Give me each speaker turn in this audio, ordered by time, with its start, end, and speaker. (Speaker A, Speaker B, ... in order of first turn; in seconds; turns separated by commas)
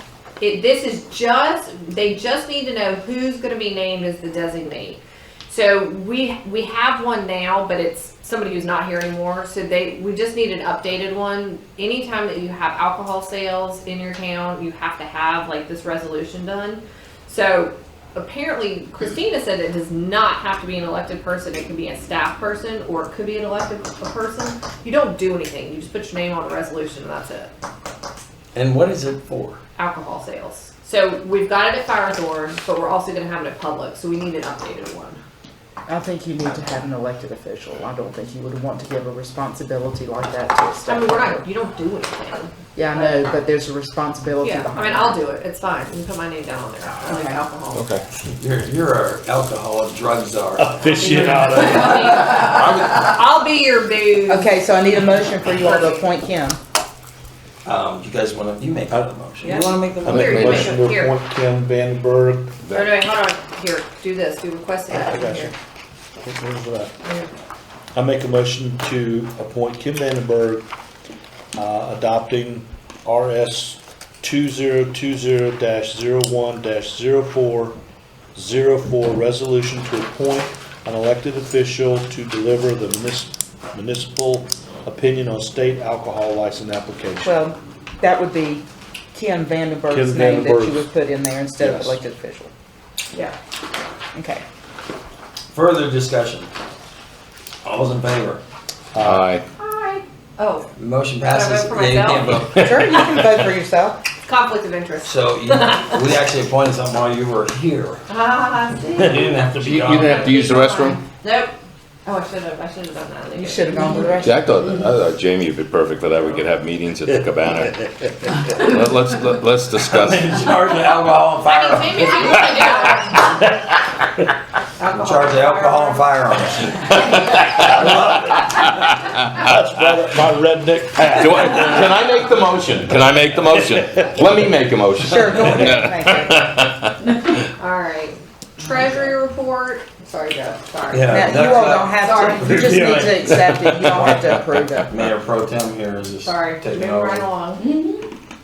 Speaker A: 0.4-27.5, Speaker B: 28.6-29.6, Speaker A: 29.8-35.2, Speaker C: 35.9-41.4, Speaker A: 40.9-43.3, Speaker C: 42.8-45.2, Speaker A: 44.4-47.8, Speaker C: 47.1-47.4, Speaker D: 47.7-48.0, Speaker B: 48.4-51.2, Speaker E: 50.6-52.7, Speaker A: 51.0-54.5, Speaker C: 54.3-56.6, Speaker A: 55.6-56.0, Speaker B: 57.6-60.7, Speaker A: 59.4-61.1, Speaker E: 60.0-62.6, Speaker D: 60.3-60.7, Speaker D: 62.7-62.9, Speaker A: 62.7-65.5, Speaker E: 65.0-65.5, Speaker E: 66.2-66.9, Speaker A: 67.0-67.3, Speaker E: 67.9-70.6, Speaker E: 71.6-77.8, Speaker E: 78.3-87.3, Speaker C: 87.2-92.5, Speaker E: 89.9-90.9, Speaker E: 91.6-92.0, Speaker C: 94.1-94.4, Speaker B: 95.5-96.5, Speaker B: 97.6-98.4, Speaker B: 98.9-99.3, Speaker D: 99.0-99.4, Speaker A: 99.6-100.7, Speaker B: 100.8-103.0, Speaker A: 101.2-102.4, Speaker D: 102.5-103.0, Speaker C: 102.6-104.0, Speaker A: 104.2-106.1, Speaker B: 105.0-108.0, Speaker A: 108.1-111.5, Speaker B: 109.0-110.4, Speaker D: 109.7-111.0, Speaker A: 112.1-114.2, Speaker C: 113.4-114.7, Speaker D: 114.2-117.9, Speaker D: 118.5-120.3, Speaker B: 119.8-122.7, Speaker A: 121.4-123.5, Speaker A: 124.8-126.2, Speaker B: 125.0-128.8, Speaker D: 127.1-127.7, Speaker D: 128.3-130.0, Speaker E: 129.4-132.1, Speaker D: 131.0-137.4, Speaker E: 132.9-133.6, Speaker C: 135.0-136.5, Speaker B: 135.4-135.8, Speaker A: 137.6-143.1, Speaker B: 140.9-144.3, Speaker C: 141.1-144.9, Speaker D: 143.2-144.2, Speaker B: 144.9-147.3, Speaker A: 146.2-147.7, Speaker C: 147.6-148.0